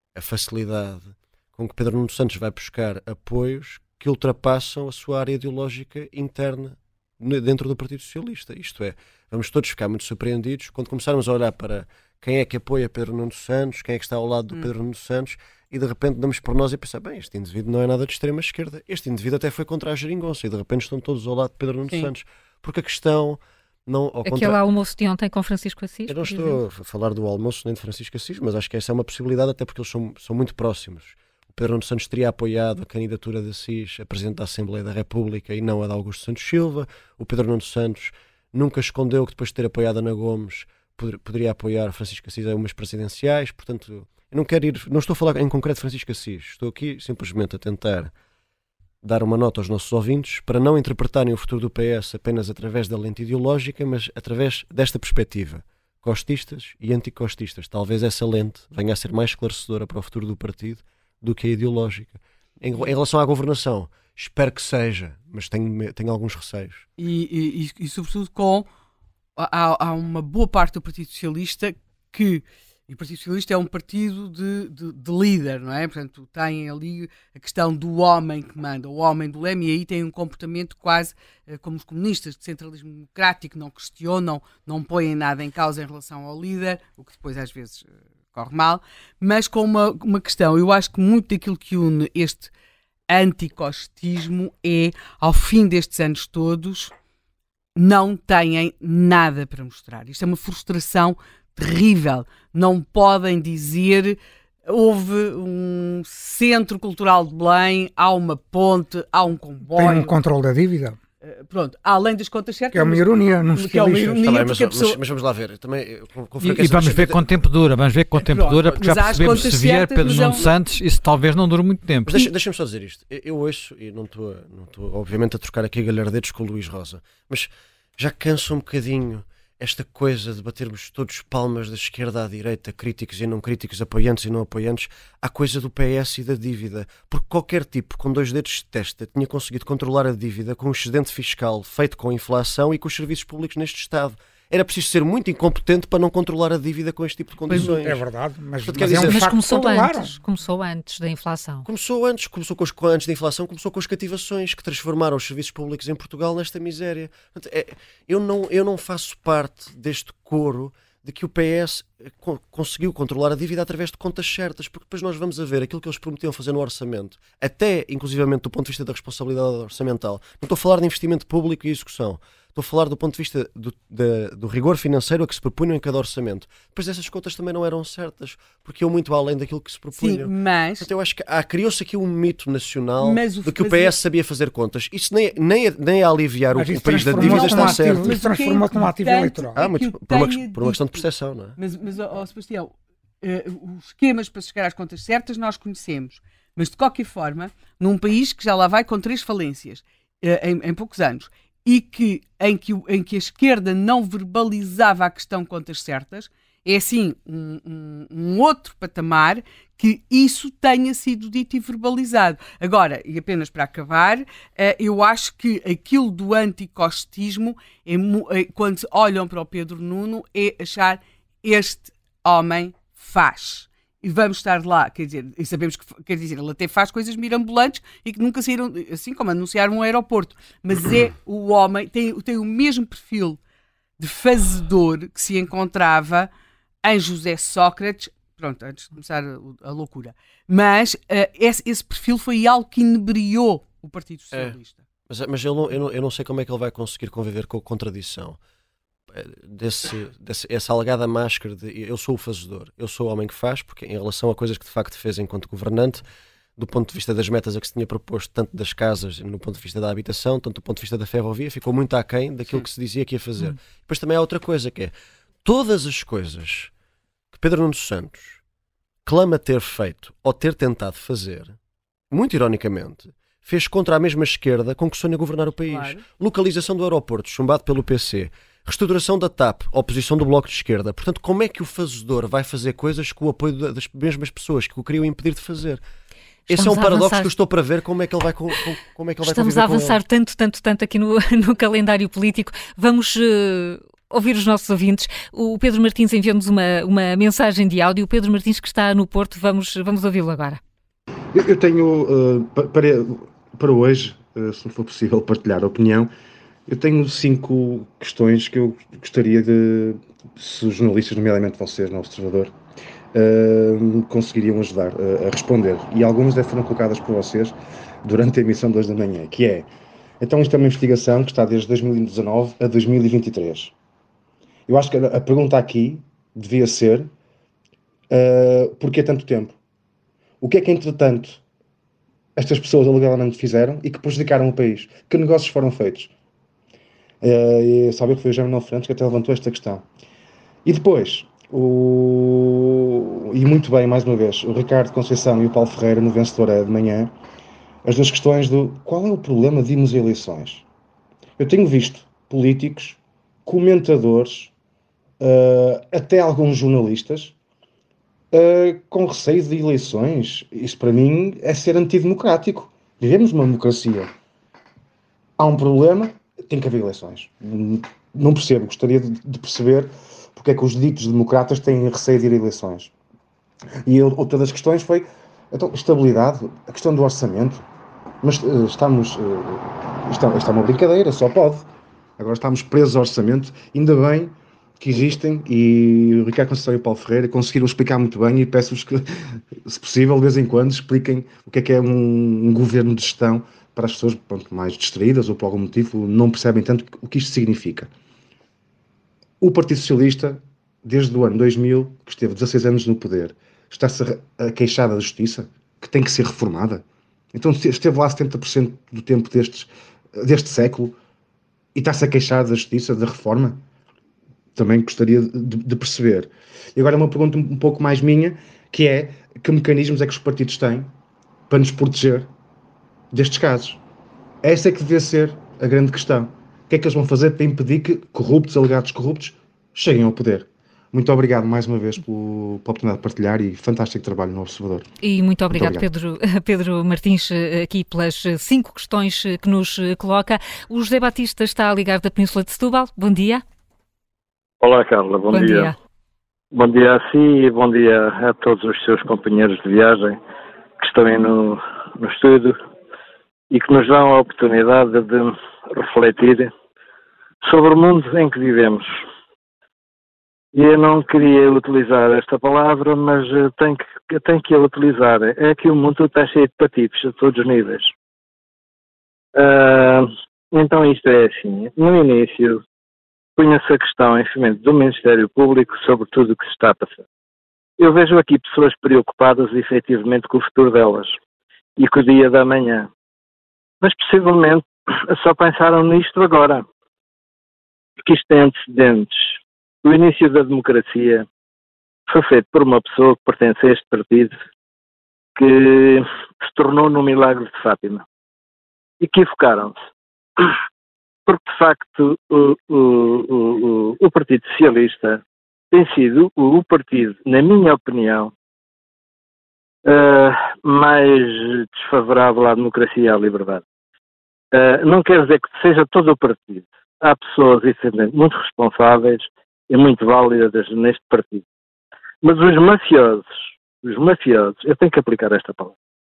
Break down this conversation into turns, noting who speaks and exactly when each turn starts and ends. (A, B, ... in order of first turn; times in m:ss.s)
0:00.1-0:24.6 A
0:24.2-0:26.6 B
0:26.1-0:48.1 A
0:49.0-1:06.8 A
1:07.0-1:08.7 C
1:09.4-1:32.5 C
1:33.1-1:36.9 C
1:37.7-1:50.1 C
1:49.7-1:51.0 D
1:51.2-1:55.0 C
1:52.7-1:54.2 D
1:54.2-1:57.2 A
1:56.4-2:02.3 E
1:58.2-2:00.5 C
2:02.0-2:28.0 A
2:27.5-2:30.2 D
2:28.6-2:29.2 A
2:29.0-2:31.6 B
2:31.6-3:08.2 A
3:00.0-3:00.9 C
3:03.0-3:04.0 C
3:06.5-3:09.6 D
3:07.0-3:11.0 C
3:09.6-3:11.6 A
3:11.6-3:53.4 C
3:54.0-3:56.3 C
3:56.8-4:04.8 C
4:05.1-4:08.4 A
4:09.1-4:16.0 A
4:16.6-4:26.7 A
4:27.3-4:28.4 A
4:29.0-4:31.6 A
4:32.1-4:45.8 A
4:35.6-4:36.0 C
4:46.5-4:50.0 A
4:46.5-4:47.3 B
4:49.2-5:00.6 B
5:01.3-5:06.1 F
5:06.7-5:12.5 F
5:13.1-5:19.7 F
5:20.2-5:23.7 F
5:24.7-5:27.1 F
5:28.1-5:29.6 F
5:30.4-5:31.4 F
5:32.4-5:36.1 F
5:37.2-5:39.9 F
5:40.6-5:47.1 F
5:47.8-5:50.6 F
5:51.4-5:54.5 F
5:55.2-5:57.3 F
5:58.3-6:04.1 F
6:05.4-6:12.9 F
6:13.8-6:17.6 F
6:18.2-6:29.1 F
6:29.6-6:37.9 F
6:39.4-6:51.0 F
6:51.7-6:53.6 F
6:54.5-7:00.9 F
7:01.5-7:02.3 F
7:03.1-7:03.8 F
7:04.4-7:14.9 F
7:15.0-7:23.4 B
7:15.5-7:15.9 F
7:24.6-7:25.7 G
7:25.3-7:25.7 B
7:26.5-7:30.2 G
7:30.8-7:32.6 G
7:33.5-7:36.5 G
7:37.4-7:38.9 G
7:40.5-7:47.9 G
7:49.3-7:52.6 G
7:53.4-7:57.0 G
7:57.8-8:01.2 G
8:01.8-8:02.9 G
8:03.8-8:06.6 G
8:08.0-8:11.2 G
8:12.1-8:14.4 G
8:15.4-8:18.0 G
8:19.0-8:19.8 G
8:21.2-8:28.3 G
8:29.8-8:33.6 G
8:34.5-8:41.4 G
8:42.2-8:45.7 G